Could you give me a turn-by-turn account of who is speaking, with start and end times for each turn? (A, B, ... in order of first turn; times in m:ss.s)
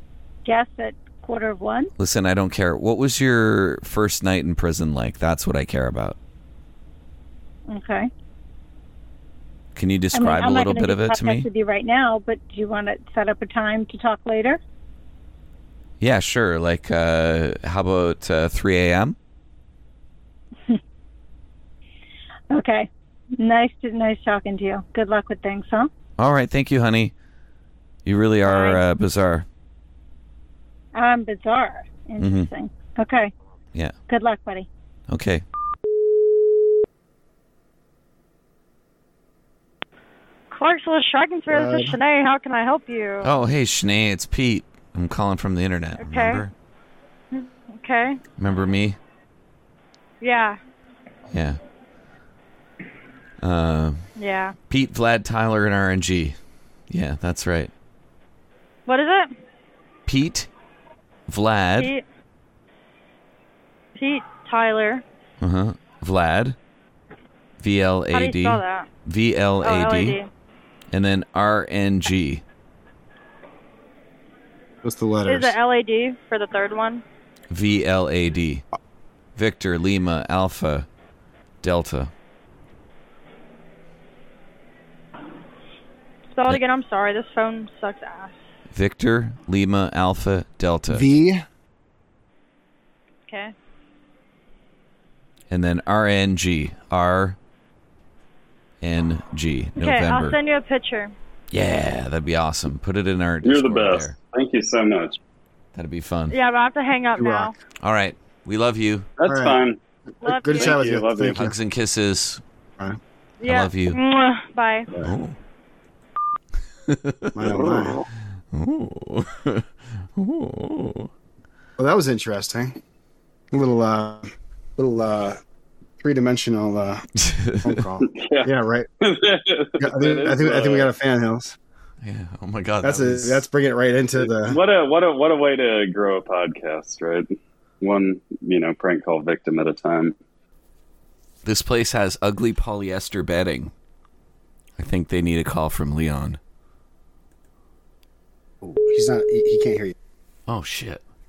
0:00.4-0:01.9 A
0:02.0-0:06.2 B
0:07.7-0:08.1 A
0:09.7-0:11.5 B
0:10.1-0:14.6 A
0:16.0-0:19.2 B
0:22.5-0:25.9 A
0:26.2-0:27.1 B
0:28.0-0:29.4 B
0:28.4-0:28.8 A
0:30.9-0:33.3 A
0:32.2-0:32.5 B
0:34.1-0:34.7 A
0:35.1-0:35.4 B
0:40.5-0:43.3 C
0:41.5-0:41.9 D
0:43.2-0:46.5 B
0:46.0-0:46.4 C
0:47.3-0:48.2 C
0:48.4-0:49.0 B
0:50.2-0:50.6 C
0:51.3-0:51.6 B
0:53.4-0:54.1 B
0:54.2-0:54.5 C
0:54.7-0:56.4 B
0:56.9-0:57.7 B
0:58.9-0:59.3 C
1:00.1-1:00.5 B
1:01.3-1:01.9 B
1:01.8-1:02.0 C
1:04.0-1:05.0 C
1:05.4-1:06.6 B
1:07.6-1:10.2 B
1:08.1-1:08.9 C
1:09.6-1:10.3 C
1:10.9-1:12.4 B
1:14.8-1:15.6 D
1:15.2-1:17.0 C
1:17.5-1:18.6 B
1:19.4-1:20.9 B
1:21.6-1:22.1 B
1:26.3-1:28.3 C
1:28.7-1:31.1 B
1:30.9-1:31.4 D
1:33.3-1:33.5 C
1:35.5-1:37.4 B
1:38.8-1:40.4 B
1:39.8-1:41.1 C
1:41.5-1:44.1 B
1:43.4-1:45.2 E
1:45.7-1:46.4 B
1:46.3-1:47.6 C
1:47.2-1:47.5 D
1:47.8-1:49.1 B
1:49.2-1:49.8 E
1:49.2-1:49.6 D
1:50.2-1:50.8 C
1:50.2-1:51.6 D
1:50.5-1:51.4 E
1:51.3-1:52.4 B
1:53.4-1:54.9 C
1:53.4-1:54.0 B
1:55.0-1:55.4 B
1:56.9-1:57.5 B
1:57.4-1:58.0 D
1:57.4-1:58.0 E
1:58.5-2:01.1 B
2:01.8-2:02.8 D
2:03.5-2:05.4 D
2:06.0-2:07.0 D
2:07.2-2:07.8 B
2:07.6-2:08.9 D
2:08.1-2:10.9 E
2:09.8-2:11.6 D
2:12.0-2:13.4 B
2:12.8-2:14.6 D
2:14.2-2:20.1 E
2:21.4-2:23.7 B
2:24.8-2:26.4 B
2:28.6-2:29.9 D
2:30.5-2:31.0 B